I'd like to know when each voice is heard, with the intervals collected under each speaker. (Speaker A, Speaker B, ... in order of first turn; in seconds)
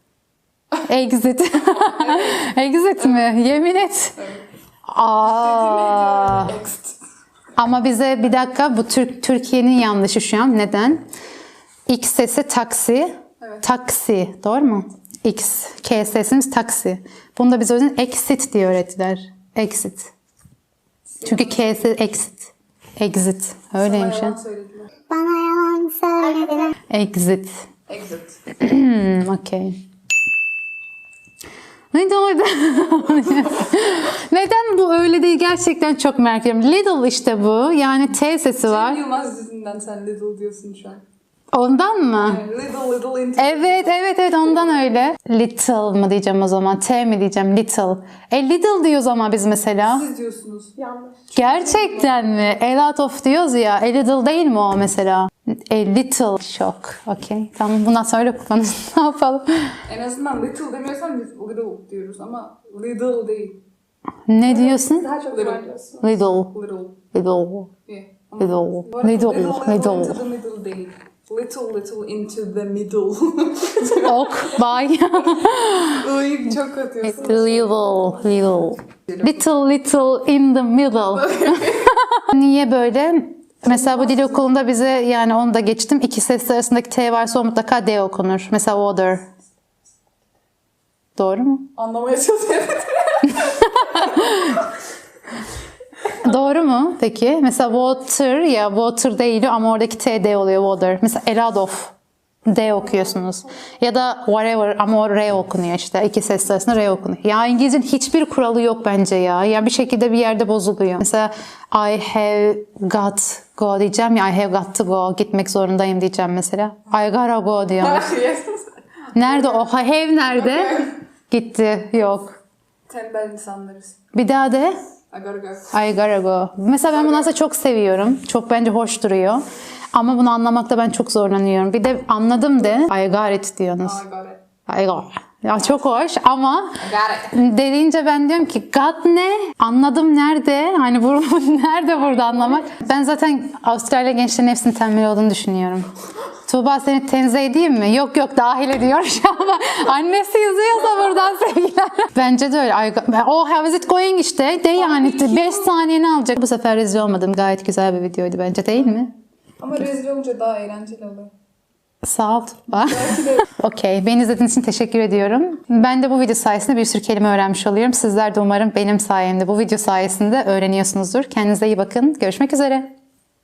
Speaker A: 0.8-4.2, 4.9-6.6, 7.6-11.1, 11.9-20.1, 21.2-24.4, 25.1-27.6, 28.6-29.8, 31.9-39.0, 41.5-42.4, 43.4-50.0, 51.4-59.8, 64.3-65.1, 66.0-66.5, 67.1-67.7, 68.4-70.2, 73.9-76.1, 77.0-89.3, 91.2-91.7, 93.8-94.5, 96.2-101.9, 102.5-118.1, 119.1-122.4, 124.1-124.8, 125.7-134.0, 134.7-145.9, 146.5-159.1, 162.0-172.9
Speaker B: 1.7-2.4, 3.0-3.4, 4.1-4.4, 5.2-7.0, 13.4-13.7, 21.1-21.8, 23.8-24.9, 27.9-28.4, 38.6-41.0, 42.2-43.9, 49.8-50.7, 51.3-52.3, 59.9-63.6, 65.3-65.7, 66.3-67.0, 67.8-74.3, 75.9-78.2, 81.2-81.9, 83.7-84.4, 91.8-94.5, 117.8-119.7, 120.3-120.9, 122.9-124.0, 125.1-125.7, 126.9-127.4, 133.8-134.4, 136.8-137.3, 142.2-142.6, 154.8-155.7, 159.6-161.3, 162.8-163.5
Speaker C: 50.8-51.2, 64.4-66.1